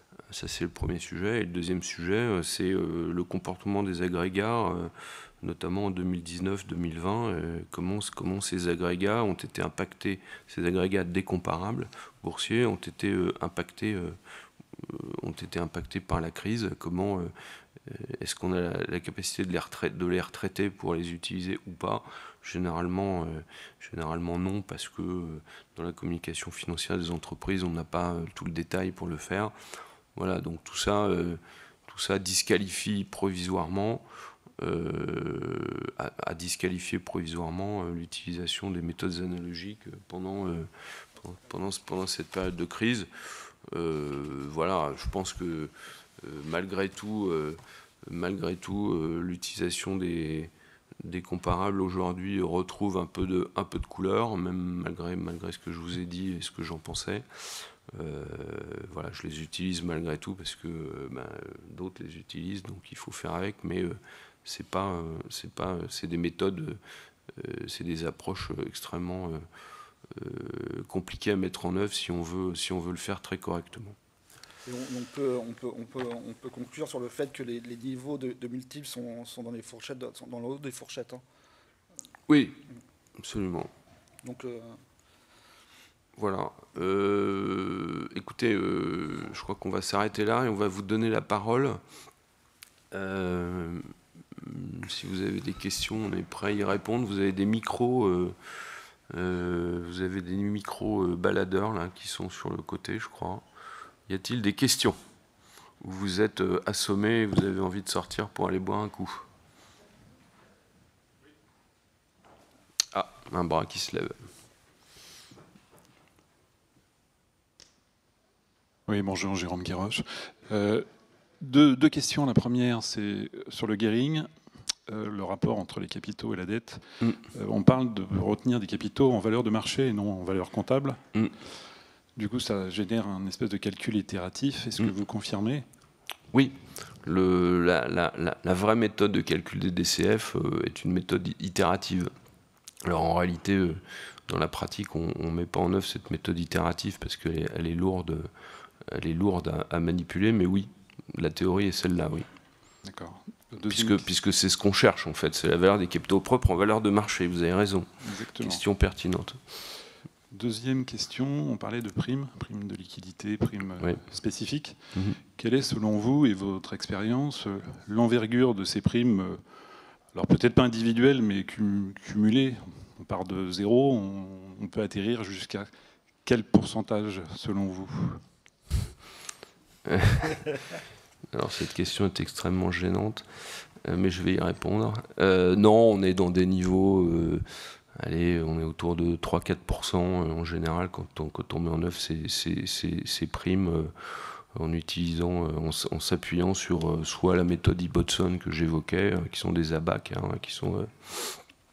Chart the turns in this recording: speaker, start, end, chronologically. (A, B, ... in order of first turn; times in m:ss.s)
0:00.3-0:14.2 A
0:14.8-0:17.3 A
0:17.8-0:29.5 A
0:30.2-0:34.0 A
0:34.6-0:40.7 A
0:41.2-0:43.1 A
0:43.7-1:06.8 A
1:07.3-1:09.4 A
1:10.1-1:14.0 A
1:14.7-1:21.2 B
1:22.3-1:22.6 A
1:23.2-1:23.7 A
1:24.2-1:24.8 B
1:26.2-1:31.8 A
1:32.9-1:38.4 A
1:39.1-1:43.4 A
1:44.1-1:45.0 A
1:45.8-1:49.3 A
1:52.9-1:54.2 A
1:58.9-2:00.9 C
2:01.4-2:04.3 C
2:04.9-2:11.0 C
2:12.2-2:15.6 C
2:16.3-2:22.1 A
2:22.8-2:28.3 A
2:28.9-2:32.3 A
2:32.8-2:34.0 C
2:33.7-2:39.4 A
2:38.0-2:38.6 C
2:40.3-2:49.4 C
2:50.1-2:55.7 C
2:56.2-2:58.2 C
2:59.9-3:00.4 A
3:01.3-3:21.4 A